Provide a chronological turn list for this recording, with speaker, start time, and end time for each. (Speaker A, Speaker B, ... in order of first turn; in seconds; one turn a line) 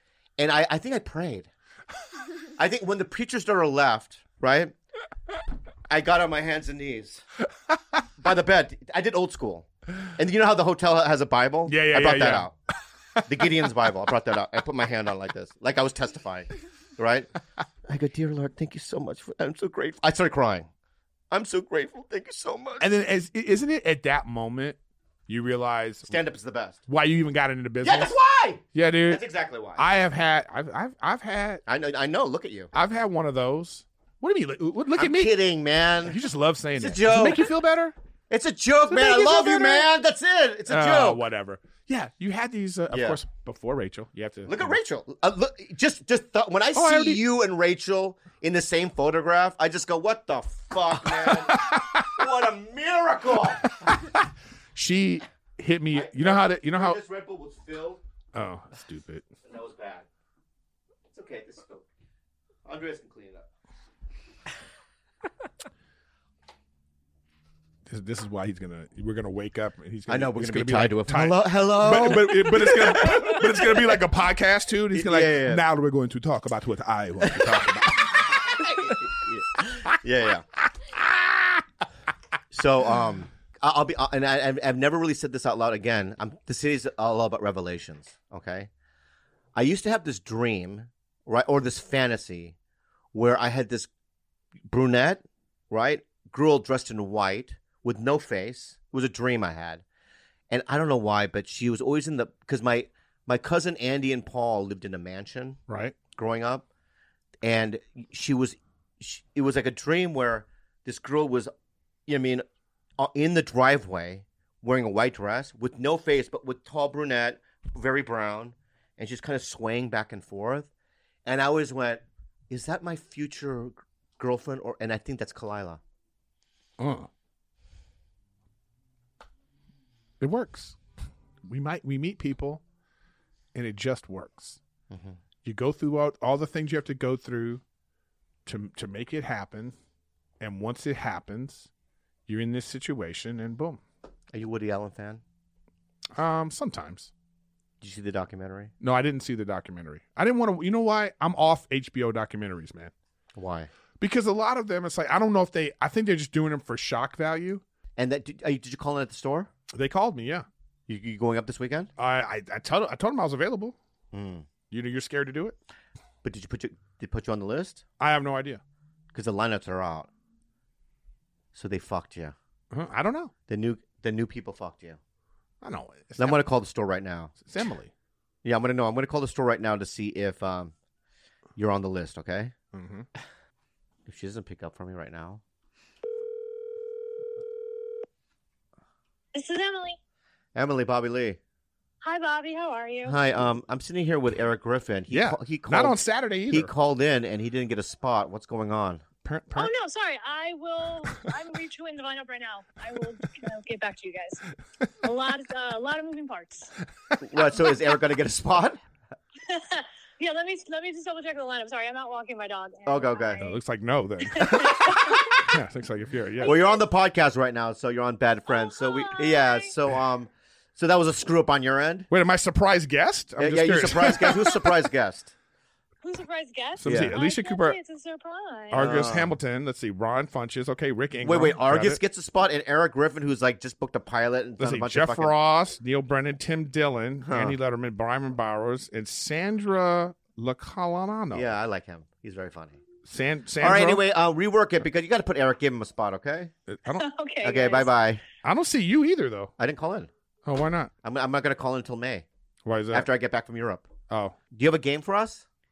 Speaker A: 0.4-1.5
Speaker A: 2.6-4.7
Speaker A: 5.9-7.2
Speaker A: 8.2-12.5
Speaker B: 11.7-12.5
Speaker A: 13.2-17.3
Speaker A: 17.9-20.7
Speaker A: 21.3-22.9
Speaker B: 22.8-24.8
Speaker B: 25.3-26.1
Speaker A: 26.1-26.8
Speaker B: 26.9-28.1
Speaker A: 27.8-29.8
Speaker B: 28.7-29.2
Speaker B: 29.8-31.6
Speaker A: 31.7-32.7
Speaker B: 32.7-35.3
Speaker A: 35.0-36.2
Speaker B: 36.0-37.9
Speaker A: 36.8-37.5
Speaker A: 38.3-41.2
Speaker B: 38.9-39.9
Speaker B: 40.7-44.7
Speaker A: 42.9-43.2
Speaker A: 44.5-53.7
Speaker B: 46.7-47.2
Speaker B: 51.3-52.0
Speaker B: 53.8-54.1
Speaker B: 54.7-57.0
Speaker A: 55.9-58.0
Speaker B: 58.3-59.3
Speaker A: 59.4-60.0
Speaker A: 61.1-61.9
Speaker A: 62.6-63.5
Speaker B: 67.9-78.7
Speaker A: 70.1-74.0
Speaker A: 74.9-75.6
Speaker A: 77.2-77.5
Speaker A: 78.5-80.4
Speaker B: 80.9-81.6
Speaker A: 82.5-88.7
Speaker A: 89.5-92.5
Speaker A: 93.1-93.9
Speaker A: 94.7-99.8
Speaker A: 100.5-105.6
Speaker B: 105.7-105.9
Speaker A: 106.1-106.7
Speaker A: 107.4-111.5
Speaker A: 112.1-112.4
Speaker A: 113.0-120.7
Speaker A: 121.2-125.8
Speaker B: 126.8-127.1
Speaker B: 130.2-130.8
Speaker B: 131.4-132.6
Speaker B: 133.5-134.6
Speaker A: 134.9-135.2
Speaker B: 135.4-137.6
Speaker B: 138.4-139.7
Speaker B: 140.4-141.7
Speaker B: 142.3-143.8
Speaker A: 144.3-145.2
Speaker B: 146.2-147.1
Speaker A: 147.8-148.7
Speaker B: 148.8-152.9
Speaker A: 153.3-153.7
Speaker B: 154.0-157.6
Speaker A: 158.0-159.5
Speaker B: 159.7-160.4
Speaker A: 160.9-161.9
Speaker B: 162.0-163.8
Speaker A: 164.1-164.5
Speaker B: 164.7-165.6
Speaker A: 166.2-167.8
Speaker B: 168.0-168.6
Speaker A: 169.1-170.1
Speaker A: 171.5-172.3
Speaker B: 172.7-173.3
Speaker A: 173.5-175.0
Speaker B: 175.6-176.4
Speaker A: 176.2-177.3
Speaker B: 177.4-177.9
Speaker A: 178.4-180.7
Speaker A: 181.6-182.5
Speaker B: 182.7-183.1
Speaker A: 184.1-185.4
Speaker C: 189.3-190.0
Speaker A: 190.5-191.4
Speaker C: 192.0-193.2
Speaker A: 193.0-196.0
Speaker B: 195.1-196.7
Speaker A: 196.5-199.0
Speaker B: 199.2-199.7
Speaker C: 199.6-204.4
Speaker C: 205.0-206.7
Speaker A: 207.2-208.8
Speaker C: 209.5-213.5
Speaker A: 212.8-213.4
Speaker B: 213.4-216.6
Speaker C: 214.3-215.4
Speaker C: 216.4-216.8
Speaker A: 216.4-222.1
Speaker C: 218.5-219.7
Speaker B: 222.1-224.7
Speaker A: 223.4-225.3
Speaker C: 226.0-228.8
Speaker B: 226.8-227.8
Speaker A: 226.8-227.1
Speaker B: 228.7-232.0
Speaker A: 228.7-229.3
Speaker A: 231.2-235.3
Speaker B: 234.6-241.5
Speaker A: 237.2-237.6
Speaker A: 241.3-242.8
Speaker B: 243.0-244.0
Speaker A: 243.6-246.5
Speaker B: 246.7-247.1
Speaker C: 247.0-247.9
Speaker A: 247.4-248.2
Speaker B: 248.4-249.5
Speaker A: 249.6-250.1
Speaker B: 250.4-250.9
Speaker A: 251.0-252.2
Speaker B: 252.7-253.1
Speaker A: 252.9-253.9
Speaker B: 254.1-254.3
Speaker A: 254.5-255.4